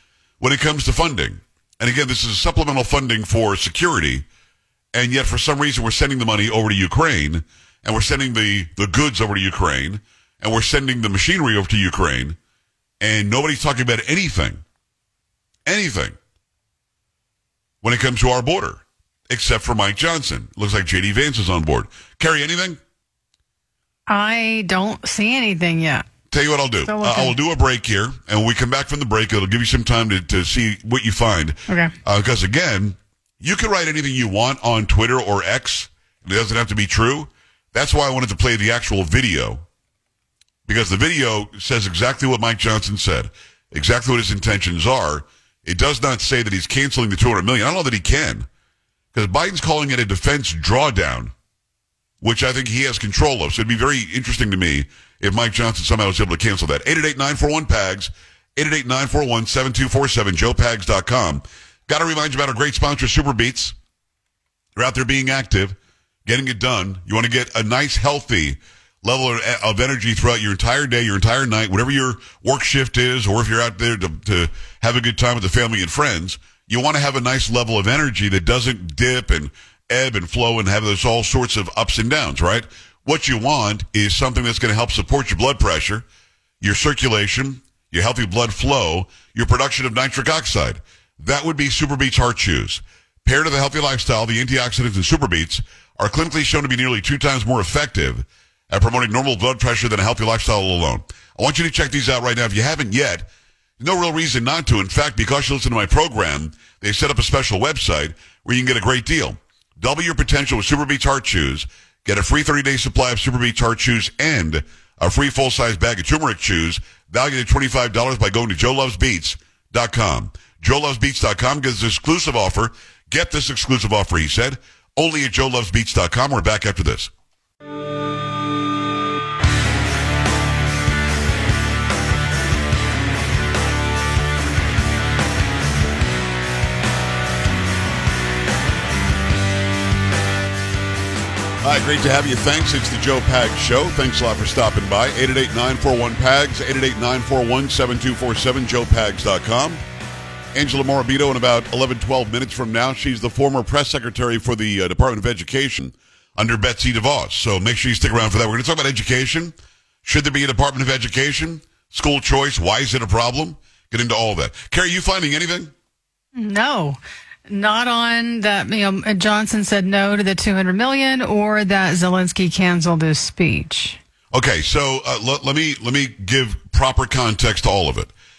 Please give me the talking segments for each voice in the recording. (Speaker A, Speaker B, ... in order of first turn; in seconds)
Speaker A: 0.4-4.3, 4.9-12.4, 13.0-14.6, 15.7-16.1, 17.8-22.8, 26.3-39.6, 40.7-48.5, 49.1-51.3, 52.2-63.7, 64.8-86.0, 86.6-103.3, 103.8-127.1, 141.6-149.8, 150.5-165.7, 174.3-178.1
Speaker B: 24.1-26.0, 26.9-27.4, 31.7-31.9, 166.4-174.0